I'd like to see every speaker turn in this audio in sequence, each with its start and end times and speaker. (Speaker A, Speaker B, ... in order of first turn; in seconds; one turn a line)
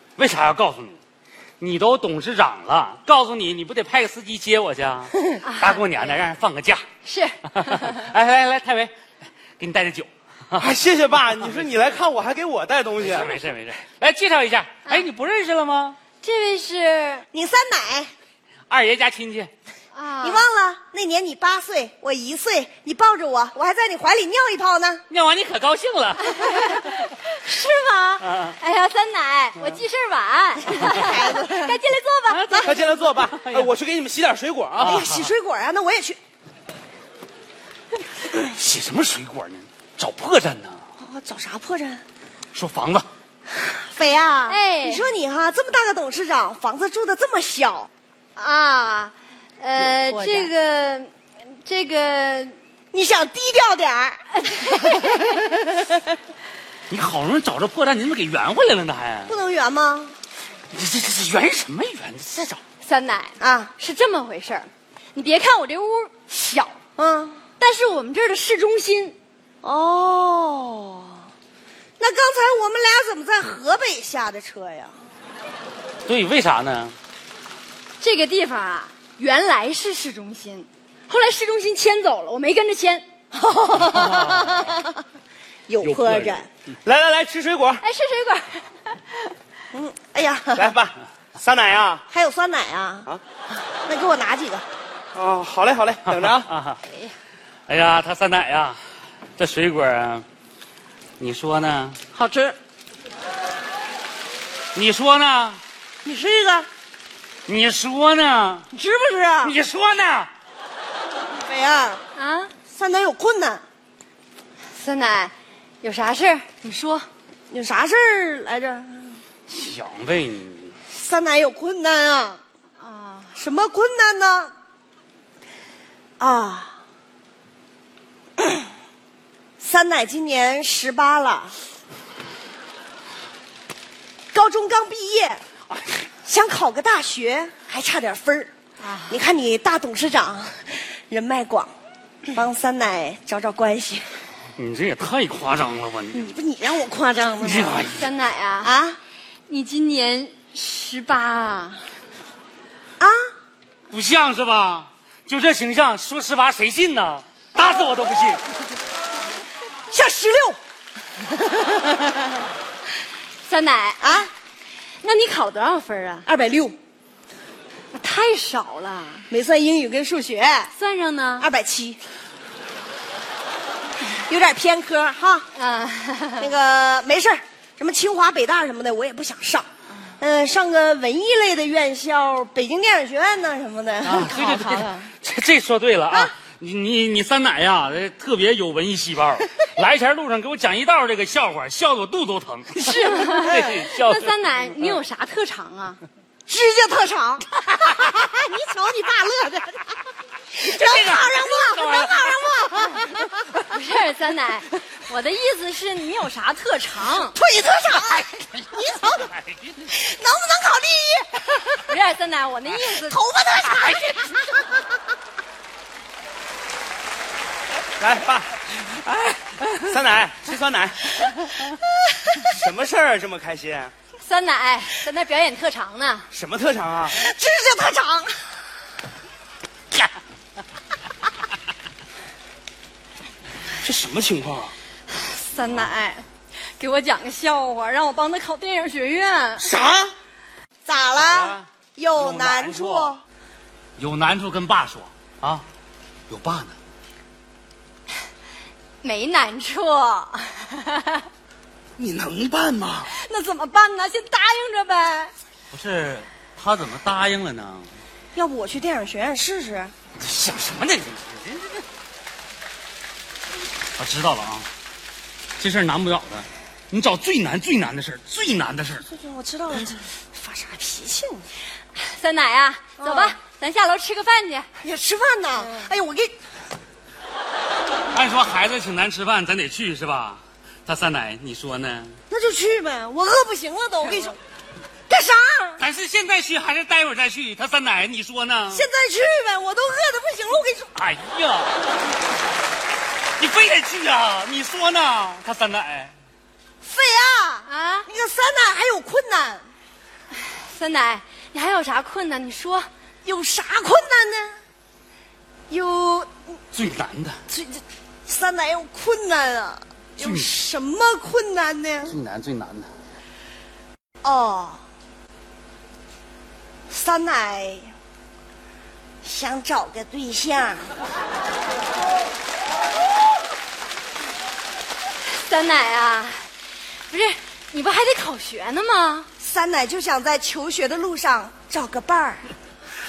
Speaker A: 0.2-1.0
Speaker A: 1.6-6.8
Speaker B: 5.4-5.8
Speaker B: 7.0-8.1
Speaker A: 7.6-8.9
Speaker A: 9.6-10.7
Speaker C: 10.6-13.3
Speaker A: 13.0-16.0
Speaker B: 16.2-17.2
Speaker D: 17.3-18.1
Speaker A: 18.7-19.5
Speaker B: 19.9-20.4
Speaker D: 20.2-25.0
Speaker A: 25.1-26.9
Speaker B: 26.3-32.7
Speaker A: 28.2-28.6
Speaker D: 30.7-31.8
Speaker A: 32.3-33.7
Speaker C: 32.6-35.0
Speaker A: 34.8-35.3
Speaker D: 34.8-36.2
Speaker A: 38.4-40.8
Speaker D: 41.0-42.0
Speaker A: 42.5-43.0
Speaker D: 43.8-47.9
Speaker B: 44.5-45.0
Speaker B: 48.4-52.5
Speaker D: 49.8-50.5
Speaker D: 52.9-56.0
Speaker B: 54.3-55.3
Speaker A: 56.9-59.4
Speaker D: 59.3-60.1
Speaker A: 60.7-62.6
Speaker B: 62.8-66.8
Speaker D: 63.4-63.7
Speaker D: 67.0-67.4
Speaker B: 67.6-69.2
Speaker D: 69.6-71.2
Speaker D: 72.0-75.0
Speaker A: 76.0-76.9
Speaker B: 78.0-83.0
Speaker D: 83.3-84.9
Speaker A: 83.8-84.7
Speaker D: 85.7-86.5
Speaker A: 85.8-86.4
Speaker C: 86.8-87.8
Speaker B: 87.8-89.3
Speaker D: 89.7-90.7
Speaker C: 90.6-92.0
Speaker D: 92.1-93.1
Speaker D: 93.8-94.6
Speaker C: 95.1-96.5
Speaker A: 96.0-96.8
Speaker B: 96.9-97.1
Speaker A: 97.7-98.8
Speaker A: 99.3-100.2
Speaker A: 101.2-102.1
Speaker D: 102.1-102.5
Speaker A: 104.7-105.6
Speaker D: 106.0-106.7
Speaker A: 107.5-108.7
Speaker D: 108.7-109.5
Speaker A: 109.4-110.3
Speaker D: 111.4-112.0
Speaker B: 112.1-112.5
Speaker D: 112.7-113.6
Speaker B: 114.7-117.0
Speaker D: 117.5-119.2
Speaker A: 119.5-120.8
Speaker D: 120.9-122.4
Speaker B: 122.8-123.4
Speaker D: 123.3-124.5
Speaker D: 126.2-126.8
Speaker D: 129.6-131.6
Speaker D: 134.3-135.4
Speaker D: 136.2-138.5
Speaker B: 138.8-139.2
Speaker D: 139.1-141.7
Speaker D: 142.3-144.1
Speaker A: 144.6-146.3
Speaker D: 146.1-147.9
Speaker A: 147.4-148.1
Speaker B: 147.9-148.7
Speaker D: 148.6-149.0
Speaker B: 149.5-151.8
Speaker A: 153.9-158.4
Speaker D: 159.9-160.6
Speaker D: 161.5-161.9
Speaker B: 163.4-164.3
Speaker D: 164.0-164.3
Speaker B: 165.0-166.2
Speaker D: 166.2-166.8
Speaker B: 167.9-169.3
Speaker D: 169.3-170.7
Speaker B: 170.7-171.5
Speaker D: 171.4-172.0
Speaker D: 174.0-175.5
Speaker B: 175.5-176.5
Speaker D: 176.4-179.7
Speaker D: 180.2-184.3
Speaker A: 184.0-195.0
Speaker B: 184.1-185.1
Speaker B: 192.8-196.0
Speaker D: 196.5-200.0
Speaker D: 200.5-203.6
Speaker A: 200.6-202.3
Speaker B: 203.7-207.4
Speaker D: 207.3-209.3
Speaker A: 208.6-209.7
Speaker D: 209.8-211.9
Speaker B: 211.9-213.2
Speaker D: 212.8-214.8
Speaker C: 218.0-218.6
Speaker C: 219.8-221.1
Speaker C: 222.5-223.9
Speaker B: 224.2-226.3
Speaker C: 226.3-227.2
Speaker D: 227.1-228.5
Speaker C: 233.8-234.7
Speaker B: 235.1-236.2
Speaker B: 236.8-239.7
Speaker C: 239.6-240.1
Speaker D: 240.8-243.2
Speaker A: 241.2-243.2
Speaker A: 244.0-245.6
Speaker A: 246.3-246.8
Speaker B: 249.0-251.2
Speaker C: 252.0-253.1
Speaker B: 253.1-255.3
Speaker A: 255.7-257.9
Speaker D: 258.3-259.9
Speaker A: 260.2-261.8
Speaker A: 264.0-264.7
Speaker A: 265.6-269.0
Speaker D: 269.0-271.5
Speaker B: 271.9-274.7
Speaker D: 273.0-273.3
Speaker D: 274.8-276.3
Speaker A: 278.1-282.2
Speaker D: 282.3-284.4
Speaker D: 285.1-285.8
Speaker A: 285.8-288.9
Speaker D: 288.7-290.9
Speaker A: 290.9-291.8
Speaker A: 293.4-296.1
Speaker D: 296.8-299.6
Speaker B: 297.7-298.1
Speaker B: 300.3-302.9
Speaker D: 303.2-304.6
Speaker D: 305.7-306.3
Speaker A: 306.7-307.4
Speaker D: 307.5-312.2
Speaker A: 310.2-310.5
Speaker A: 312.1-312.9
Speaker D: 314.2-314.8
Speaker D: 316.9-317.9
Speaker D: 319.2-320.9
Speaker B: 325.3-326.4
Speaker B: 327.1-329.3
Speaker D: 329.4-332.5